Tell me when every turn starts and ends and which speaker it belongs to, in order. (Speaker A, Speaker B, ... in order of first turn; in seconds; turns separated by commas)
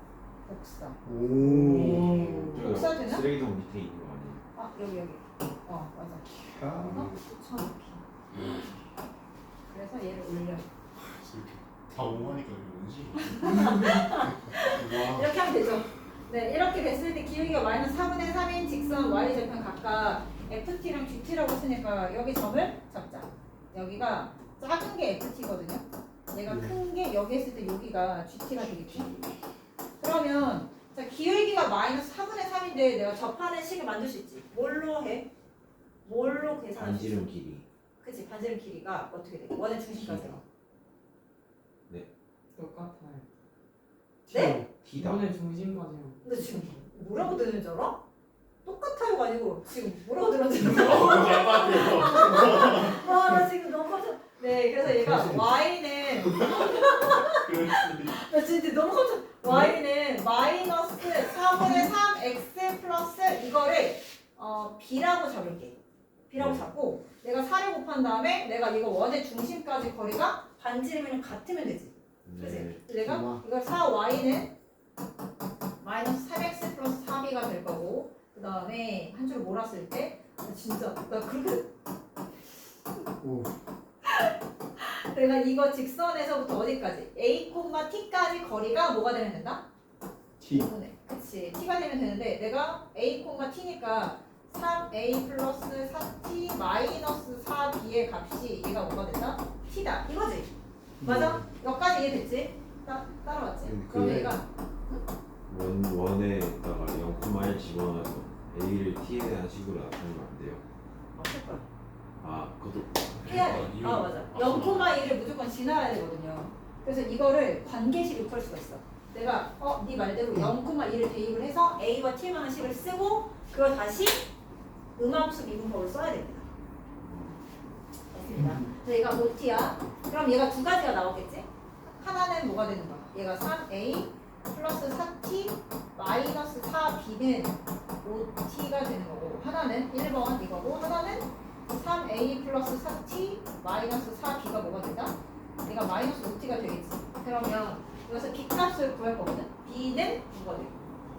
Speaker A: 0.4-1.0, Speaker B: 1.0-2.3, Speaker C: 1.4-2.7, Speaker D: 1.8-4.4, Speaker A: 2.6-3.3, Speaker A: 4.5-6.3, Speaker B: 6.5-7.1, Speaker A: 6.8-8.4, Speaker E: 8.3-8.6, Speaker A: 9.7-10.7, Speaker E: 11.0-13.7, Speaker A: 13.2-29.2, Speaker E: 14.7-15.3, Speaker B: 26.5-26.8, Speaker A: 30.0-35.3, Speaker A: 36.0-37.2, Speaker D: 36.8-37.6, Speaker A: 38.0-40.4, Speaker D: 40.0-40.4, Speaker C: 42.5-43.3, Speaker B: 44.3-44.6, Speaker A: 44.3-44.6, Speaker D: 44.8-45.3, Speaker C: 44.9-46.8, Speaker A: 46.2-48.0, Speaker A: 48.6-65.8, Speaker E: 50.7-53.0, Speaker B: 54.8-55.5, Speaker E: 57.2-58.2, Speaker A: 66.3-74.5, Speaker D: 66.4-66.7, Speaker D: 72.2-72.9, Speaker B: 73.0-73.4, Speaker A: 75.8-81.7, Speaker B: 83.2-83.5, Speaker A: 84.0-89.6, Speaker B: 90.4-90.7, Speaker A: 90.5-104.5, Speaker B: 101.0-101.5, Speaker B: 103.6-104.4, Speaker D: 105.5-110.6, Speaker A: 111.1-111.7, Speaker D: 112.2-113.1, Speaker E: 113.2-114.9, Speaker A: 113.2-124.3, Speaker A: 125.0-126.5, Speaker D: 127.0-127.4, Speaker A: 128.1-150.8, Speaker B: 128.3-128.6